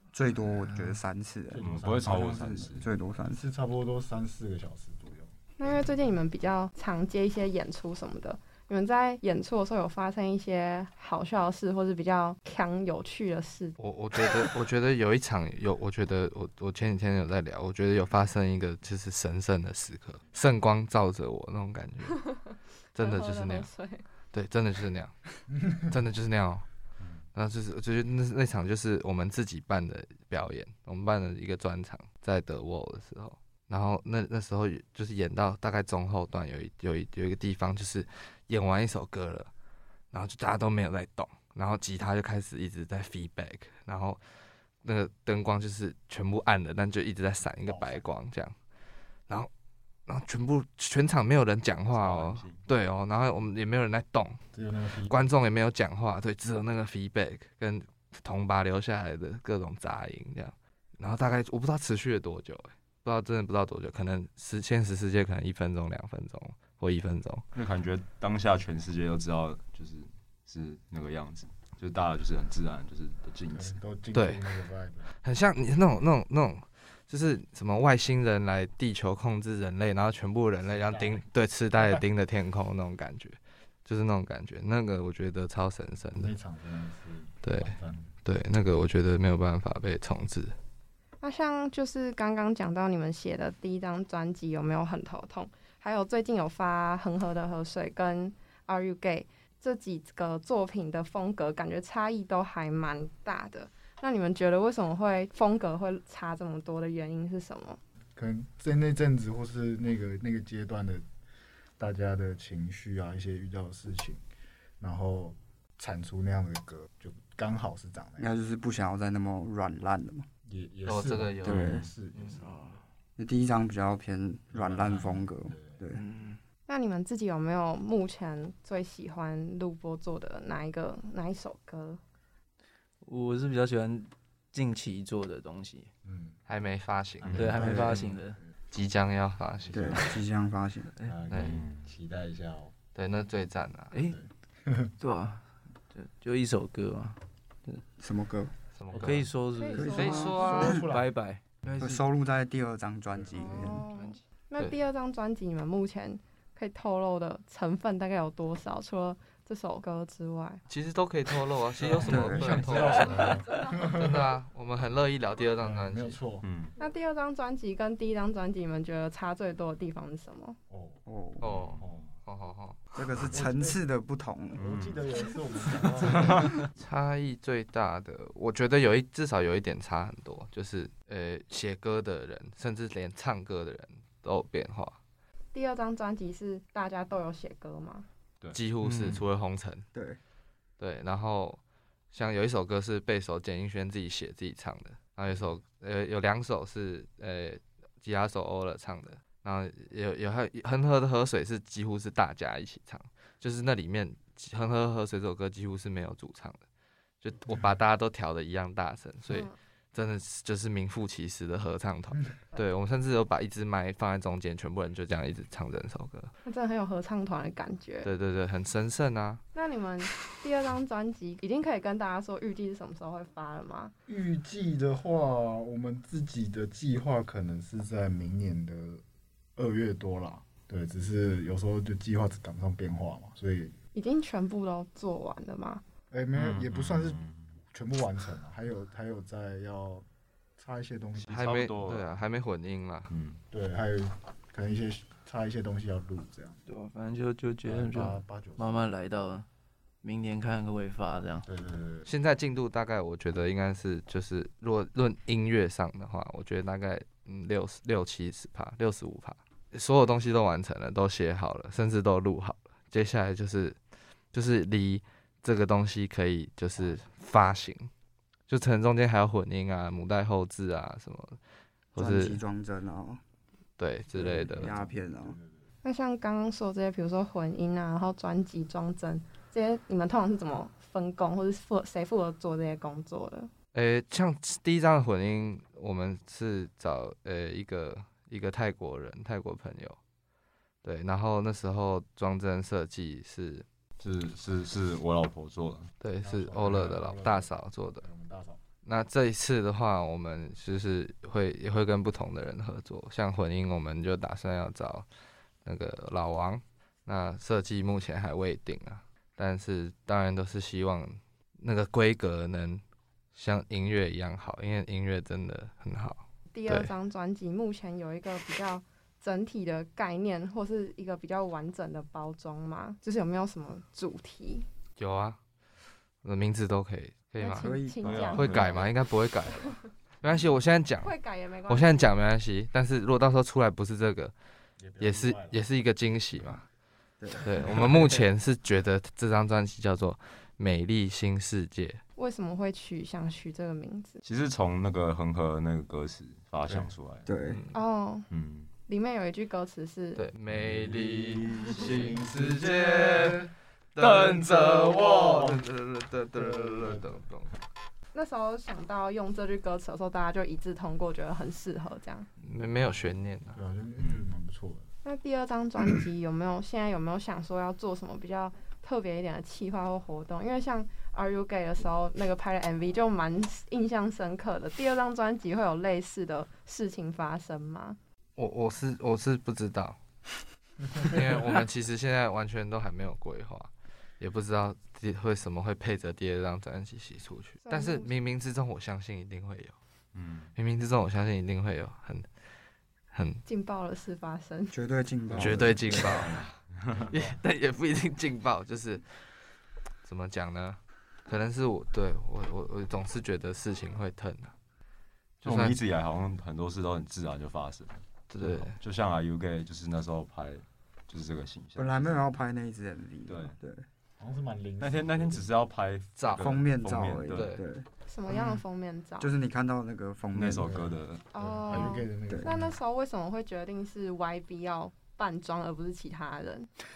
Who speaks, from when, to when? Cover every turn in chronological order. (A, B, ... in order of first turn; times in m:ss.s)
0:00.1-0:03.4 A
0:01.5-0:05.3 B
0:01.6-0:02.9 C
0:05.6-0:13.8 D
0:13.8-0:22.3 E
0:22.3-0:24.0 D
0:22.9-0:23.7 E
0:24.3-0:25.2 E
0:25.8-0:26.6 E
0:27.4-0:39.5 E
0:40.1-0:44.2 E
0:44.8-0:48.5 E
0:47.6-0:48.1 B
0:50.1-0:54.4 E
0:51.9-0:52.6 C
0:54.5-0:55.3 B
0:55.1-1:07.4 E
1:07.5-1:13.8 C
1:13.5-1:15.1 B
1:14.1-1:14.6 E
1:15.2-1:26.3 E
1:20.6-1:21.2 B
1:26.1-1:28.1 B
1:27.4-1:30.5 E
1:31.2-1:47.8 D
1:48.2-1:51.0 B
1:51.8-1:54.2 B
1:54.8-1:58.3 B
1:58.2-2:00.3 A
2:00.5-2:02.8 B
2:00.9-2:02.4 E
2:01.4-2:01.9 A
2:02.4-2:02.8 F
2:03.2-2:06.0 A
2:04.5-2:05.8 B
2:05.9-2:06.4 F
2:06.7-2:12.0 D
2:13.0-2:15.9 F
2:16.0-2:16.4 B
2:16.5-2:18.0 E
2:17.2-2:18.2 B
2:17.3-2:17.6 C
2:17.3-2:18.4 F
2:17.6-2:17.9 A
2:18.7-2:20.2 E
2:19.6-2:20.2 B
2:19.7-2:20.9 A
2:21.0-2:22.7 B
2:21.3-2:21.6 E
2:21.4-2:21.9 C
2:22.9-2:23.9 E
2:23.9-2:24.2 F
2:24.0-2:24.9 B
2:25.0-2:27.8 F
2:28.0-2:28.5 A
2:28.8-2:29.3 E
2:28.9-2:29.2 B
2:28.9-2:32.0 F
2:29.6-2:30.7 D
2:29.7-2:30.8 A
2:29.9-2:30.8 E
2:29.9-2:31.1 B
2:31.8-2:33.8 A
2:33.1-2:33.7 B
2:33.4-2:40.6 D
2:33.6-2:34.2 F
2:40.7-2:46.2 E
2:41.8-2:44.3 B
2:42.0-2:42.7 A
2:45.6-2:46.5 B
2:46.4-2:46.7 C
2:46.8-2:50.6 D
2:50.7-2:51.0 B
2:51.1-2:51.5 A
2:51.4-2:52.8 E
2:51.5-2:51.8 C
2:51.8-2:52.1 B
2:52.9-2:54.6 A
2:53.3-2:53.8 B
2:54.6-2:56.5 B
2:54.6-2:55.0 C
2:56.1-2:56.6 C
2:56.8-3:05.0 E
3:05.5-3:08.1 D
3:08.4-3:09.2 C
3:08.5-3:09.8 E
3:09.9-3:10.2 A
3:10.8-3:11.6 E
3:12.1-3:26.6 E
3:27.2-3:36.3 E
3:29.3-3:29.6 D
3:36.4-3:38.1 D
3:38.0-3:39.4 E
3:39.5-3:43.9 D
3:44.1-3:49.0 B
3:49.6-3:53.8 B
3:53.9-3:55.8 D
3:56.1-4:00.1 B
3:56.4-3:57.6 C
4:00.6-4:01.3 B
4:01.2-4:02.1 C
4:01.3-4:03.1 E
4:03.1-4:03.4 C
4:03.5-4:06.6 B
4:06.7-4:09.4 F
4:07.6-4:08.9 B
4:10.0-4:11.4 F
4:11.4-4:12.1 B
4:12.1-4:23.8 E
4:24.3-4:27.9 E
4:28.5-4:31.4 E
4:31.9-4:32.4 E
4:32.0-4:33.2 A
4:33.8-4:34.7 E
4:34.1-4:35.6 B
4:34.5-4:35.4 A
4:35.8-4:43.5 D
4:43.7-4:50.0 E
4:50.8-4:53.6 E
4:54.0-4:55.9 C
4:56.0-4:58.0 E
4:56.2-4:58.6 B
4:58.8-5:05.1 E
5:05.6-5:12.8 E
5:13.3-5:16.9 E
5:16.5-5:24.6 D
5:25.0-5:25.4 E
5:26.2-5:27.7 E
5:27.4-5:28.9 D
5:27.6-5:28.6 A
5:28.0-5:28.9 C
5:28.2-5:31.1 E
5:31.0-5:32.1 D
5:31.7-5:34.3 E
5:34.8-5:35.6 B
5:35.0-5:36.6 E
5:37.2-5:37.6 A
5:37.4-5:42.0 E
5:42.2-5:44.2 D
5:44.2-5:47.3 C
5:46.6-5:46.9 B
5:47.2-5:47.6 A
5:47.5-5:47.8 E
5:47.7-5:48.3 D
5:48.3-5:48.7 C
5:48.9-5:50.2 D
5:50.2-5:57.5 E
5:50.6-5:52.2 C
5:51.6-5:53.4 B
5:54.0-5:55.2 C
5:56.4-5:57.2 B
5:58.1-6:02.3 D
6:02.4-6:03.6 E
6:03.6-6:04.9 B
6:04.0-6:04.3 C
6:05.0-6:18.0 D
6:18.4-6:20.0 E
6:21.0-6:29.7 E
6:27.6-6:28.1 D
6:30.1-6:30.5 C
6:30.6-6:32.2 E
6:33.1-6:33.4 E
6:33.4-6:34.8 D
6:34.7-6:36.3 A
6:35.3-6:37.1 C
6:35.4-6:36.6 E
6:37.0-6:37.3 B
6:37.1-6:39.3 E
6:40.0-6:44.5 E
6:45.4-6:45.8 E
6:45.4-6:52.2 C
6:48.3-6:48.8 E
6:51.8-6:53.9 A
6:53.3-6:53.6 C
6:54.2-6:55.5 B
6:54.8-6:57.6 C
6:56.2-6:56.6 E
6:56.4-6:57.9 A
6:57.3-6:57.6 E
6:58.1-6:59.3 D
6:59.2-7:00.8 A
7:00.3-7:01.3 C
7:00.5-7:02.7 B
7:01.3-7:06.7 D